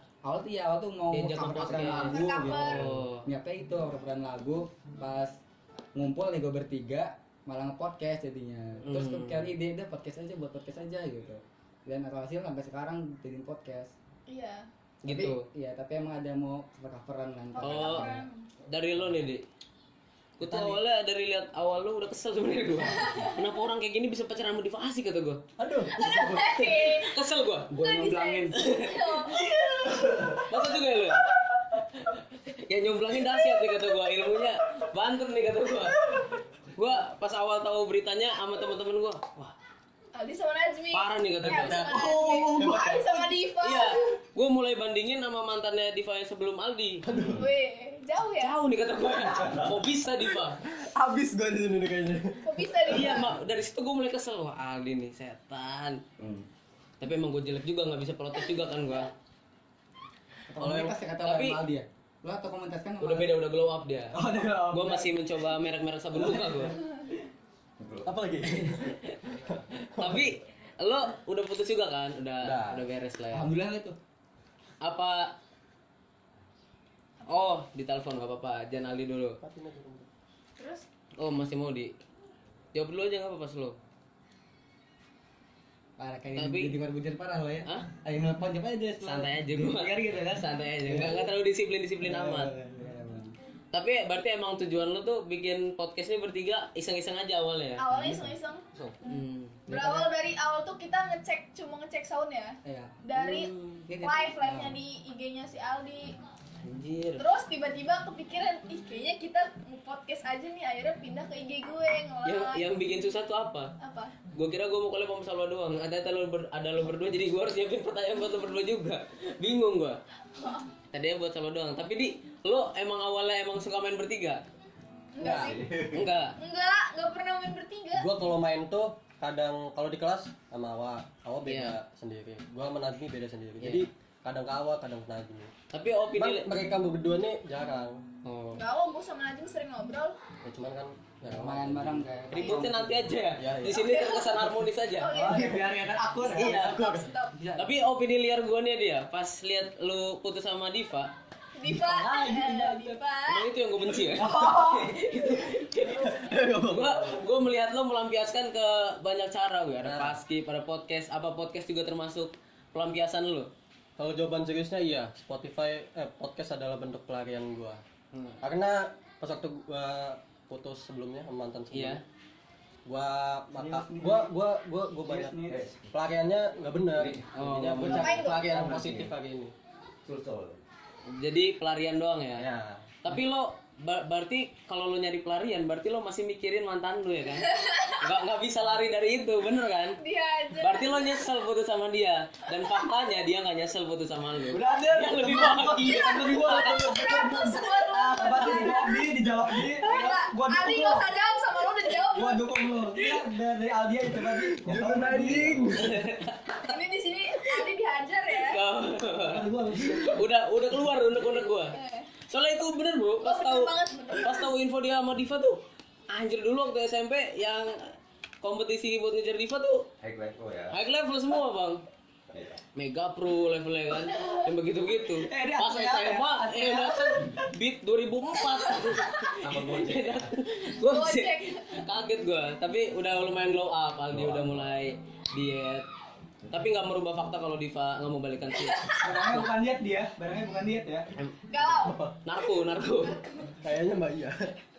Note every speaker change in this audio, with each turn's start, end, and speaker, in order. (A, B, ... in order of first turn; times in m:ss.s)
0:00.2-0:05.4 A
0:01.1-0:03.2 B
0:02.0-0:02.8 C
0:05.9-0:13.9 A
0:08.8-0:09.5 B
0:14.3-0:14.7 C
0:15.0-0:15.4 B
0:15.1-0:18.2 A
0:17.5-0:18.5 C
0:17.6-0:18.1 B
0:18.7-0:19.4 B
0:20.4-0:25.4 B
0:20.4-0:20.8 A
0:23.0-0:23.3 C
0:25.6-0:27.0 D
0:25.9-0:27.1 C
0:26.9-0:27.7 B
0:27.7-0:28.6 A
0:27.8-0:29.9 C
0:28.5-0:29.3 B
0:30.3-0:31.3 B
0:32.0-0:39.5 B
0:40.1-0:44.1 C
0:40.9-0:42.2 B
0:41.5-0:43.3 D
0:43.6-0:47.0 B
0:47.0-0:47.4 D
0:47.3-0:48.6 C
0:48.3-0:50.6 B
0:50.4-0:53.2 D
0:52.4-0:53.3 C
0:52.9-0:56.0 B
0:57.0-0:59.1 B
1:00.5-1:03.3 A
1:00.6-1:01.6 B
1:03.0-1:04.1 B
1:04.1-1:05.2 A
1:04.7-1:06.7 B
1:06.1-1:06.7 A
1:07.8-1:08.1 E
1:08.0-1:10.3 D
1:08.7-1:09.2 B
1:10.0-1:13.5 B
1:12.4-1:12.7 D
1:13.3-1:14.0 A
1:14.8-1:15.3 B
1:17.2-1:17.6 C
1:17.2-1:19.4 B
1:19.4-1:20.1 D
1:20.6-1:20.8 C
1:21.2-1:21.9 B
1:22.7-1:23.8 B
1:26.0-1:31.3 A
1:26.4-1:26.7 B
1:29.0-1:32.5 B
1:32.0-1:33.3 A
1:33.7-1:37.8 B
1:37.8-1:46.1 C
1:37.9-1:38.3 A
1:38.8-1:39.7 B
1:39.7-1:40.1 A
1:42.6-1:42.9 A
1:43.1-1:43.8 B
1:43.9-1:44.8 A
1:46.6-1:47.2 B
1:47.2-1:52.7 C
1:52.2-1:53.7 B
1:53.8-1:54.2 C
1:54.3-2:00.0 B
2:00.3-2:00.7 C
2:00.9-2:04.4 B
2:05.1-2:05.7 C
2:05.2-2:06.3 B
2:05.3-2:06.0 E
2:06.4-2:08.1 C
2:07.9-2:15.5 D
2:11.4-2:11.8 B
2:13.6-2:13.8 B
2:15.7-2:16.6 B
2:16.1-2:18.0 D
2:18.2-2:18.6 B
2:18.5-2:20.2 C
2:20.4-2:22.0 D
2:21.2-2:23.1 A
2:22.3-2:25.1 B
2:22.4-2:22.6 C
2:23.4-2:23.9 D
2:23.6-2:27.4 C
2:25.1-2:26.7 A
2:26.3-2:26.8 B
2:26.7-2:27.1 D
2:27.3-2:27.7 A
2:27.6-2:31.1 B
2:31.6-2:33.5 C
2:31.7-2:33.0 A
2:33.3-2:43.5 B
2:34.1-2:35.3 A
2:36.0-2:37.2 D
2:39.8-2:40.2 D
2:44.0-2:47.8 D
2:48.1-2:48.4 B
2:48.4-2:52.0 D
2:51.7-2:52.0 B
2:52.8-2:59.5 D
2:53.5-2:54.3 A
2:55.0-2:55.6 A
2:55.5-2:56.0 E
2:56.9-2:57.3 E
2:57.3-2:58.3 B
2:57.9-2:58.5 C
2:58.5-2:59.1 E
3:00.0-3:00.6 E
3:01.1-3:02.4 B
3:02.4-3:03.0 D
3:03.0-3:10.0 B
3:07.5-3:08.0 C
3:10.0-3:11.3 C
3:10.6-3:17.0 B
3:14.5-3:21.1 A
3:15.8-3:19.1 C
3:19.8-3:22.7 C
3:22.1-3:25.8 A
3:24.2-3:26.0 D
3:25.7-3:26.6 B
3:26.6-3:28.6 C
3:28.3-3:31.8 B
3:29.2-3:30.2 A
3:31.5-3:32.1 C
3:32.3-3:35.6 B
3:33.2-3:34.5 C
3:36.1-3:37.8 B
3:38.4-3:39.9 B
3:40.0-3:40.7 E
3:40.7-3:41.8 B
3:42.8-3:55.8 B
3:45.2-3:47.2 A
3:49.4-3:50.3 E
3:50.9-3:51.7 C
3:54.1-3:54.6 D
3:56.5-3:59.5 B
3:58.7-3:58.9 C
3:59.0-4:01.0 A
4:01.5-4:02.0 C
4:01.6-4:02.2 D
4:02.2-4:03.2 B
4:02.7-4:03.6 C
4:03.6-4:04.6 D